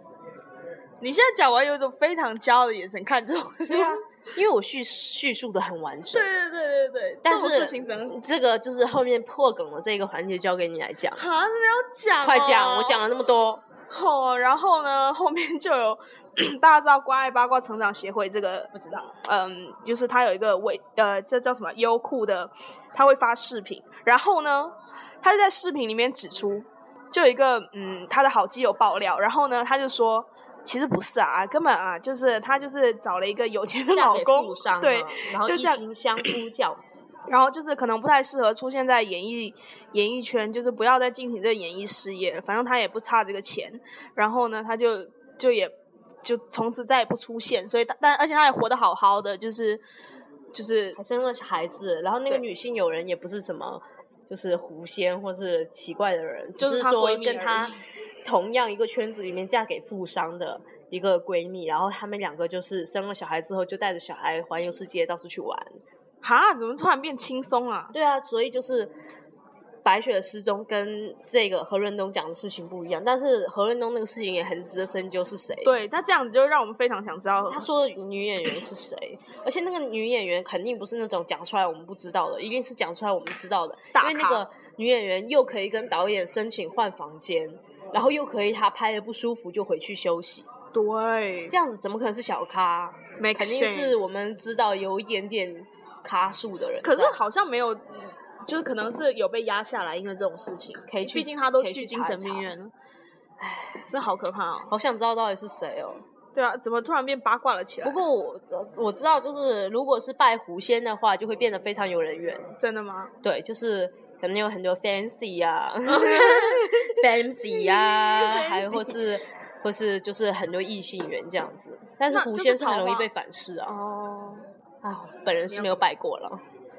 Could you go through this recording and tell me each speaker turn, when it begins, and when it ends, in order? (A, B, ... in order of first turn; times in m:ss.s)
0:01.0-0:04.0 A
0:03.7-0:06.3 B
0:06.1-0:08.2 A
0:07.2-0:11.2 B
0:11.2-0:13.0 A
0:12.2-0:13.6 B
0:13.9-0:36.3 A
0:18.8-0:19.1 B
0:33.9-0:37.0 B
0:37.3-0:49.8 A
0:50.5-0:51.0 A
0:51.0-0:57.7 B
0:56.6-0:57.8 A
0:58.2-1:05.8 B
1:06.2-1:07.9 A
1:07.9-1:08.9 B
1:09.8-1:15.7 B
1:15.6-1:17.7 A
1:17.5-1:30.5 B
1:24.0-1:24.4 A
1:30.7-1:31.5 A
1:31.5-1:37.2 B
1:33.2-1:34.1 A
1:36.8-1:42.7 A
1:40.9-1:42.5 B
1:43.4-1:43.8 B
1:43.9-1:44.7 A
1:44.7-1:46.0 B
1:46.4-1:48.0 A
1:47.8-1:52.5 B
1:52.6-1:53.1 A
1:53.2-2:03.7 B
1:55.9-1:57.0 A
1:57.5-1:59.0 A
2:02.1-2:03.1 A
2:03.7-2:04.4 A
2:04.8-2:06.4 B
2:05.5-2:05.8 A